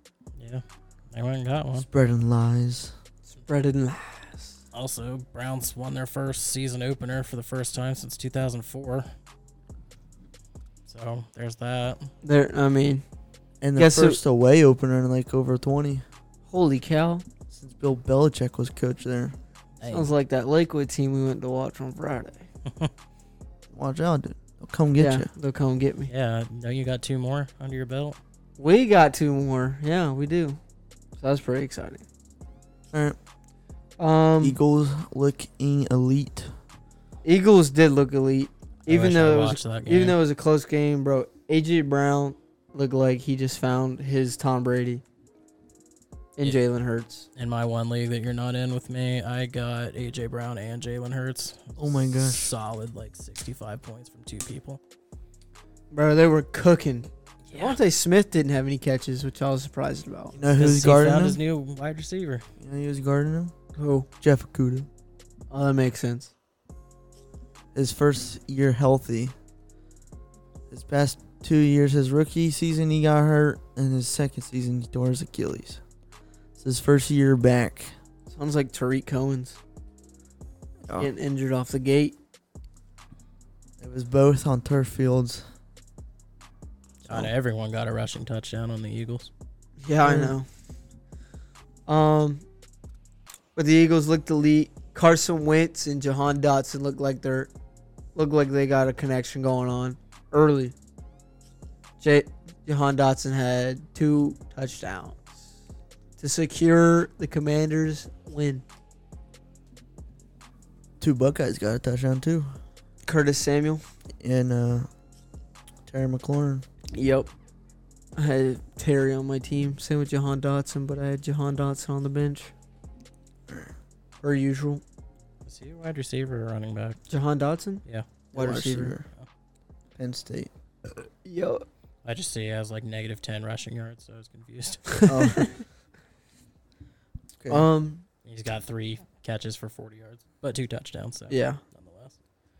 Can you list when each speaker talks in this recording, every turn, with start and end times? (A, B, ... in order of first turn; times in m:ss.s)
0:00.4-0:01.9 A
0:01.8-0:02.9 B
0:03.5-0:04.6 C
0:04.7-0:09.1 A
0:10.9-0:12.1 A
0:12.2-0:13.0 C
0:13.6-0:16.0 B
0:13.8-0:14.2 C
0:16.5-0:17.2 C
0:17.5-0:19.4 B
0:19.8-0:20.1 A
0:19.8-0:22.5 C
0:23.7-0:25.3 B
0:25.0-0:26.1 C
0:26.1-0:28.2 A
0:28.6-0:30.6 C
0:31.2-0:32.0 C
0:32.9-0:33.2 B
0:34.0-0:34.6 C
0:34.4-0:36.5 B
0:37.2-0:45.0 C
0:38.9-0:40.2 A
0:46.4-0:47.3 C
0:47.4-0:54.8 A
0:51.8-0:52.5 B
0:55.9-1:00.4 C
0:57.5-0:57.8 A
1:00.4-1:01.4 B
1:00.6-1:02.4 A
1:02.6-1:03.5 B
1:03.8-1:04.1 C
1:04.2-1:04.9 B
1:05.5-1:06.3 C
1:07.8-1:09.3 B
1:10.7-1:15.8 B
1:16.6-1:17.9 B
1:18.3-1:19.6 C
1:21.0-1:22.2 C
1:23.8-1:25.4 B
1:27.0-1:27.3 B
1:27.1-1:29.3 A
1:29.8-1:30.5 C
1:30.0-1:30.4 B
1:31.9-1:32.4 C
1:33.6-1:37.5 C
1:38.1-1:40.8 C
1:42.0-1:45.3 C
1:46.2-1:48.6 C
1:51.0-1:52.5 B
1:53.1-1:53.8 C
1:54.2-1:54.9 B
1:55.9-1:56.6 B
1:56.9-1:57.3 C
1:58.2-2:02.5 C
2:04.2-2:04.8 C
2:05.4-2:07.0 A
2:07.1-2:07.8 C
2:08.3-2:09.1 B
2:08.3-2:08.9 C
2:10.0-2:10.5 B
2:11.2-2:11.6 C
2:12.0-2:15.1 A
2:15.0-2:15.5 C
2:15.1-2:15.5 B
2:17.4-2:17.6 B
2:17.5-2:18.0 C
2:18.2-2:22.2 A
2:21.3-2:21.6 C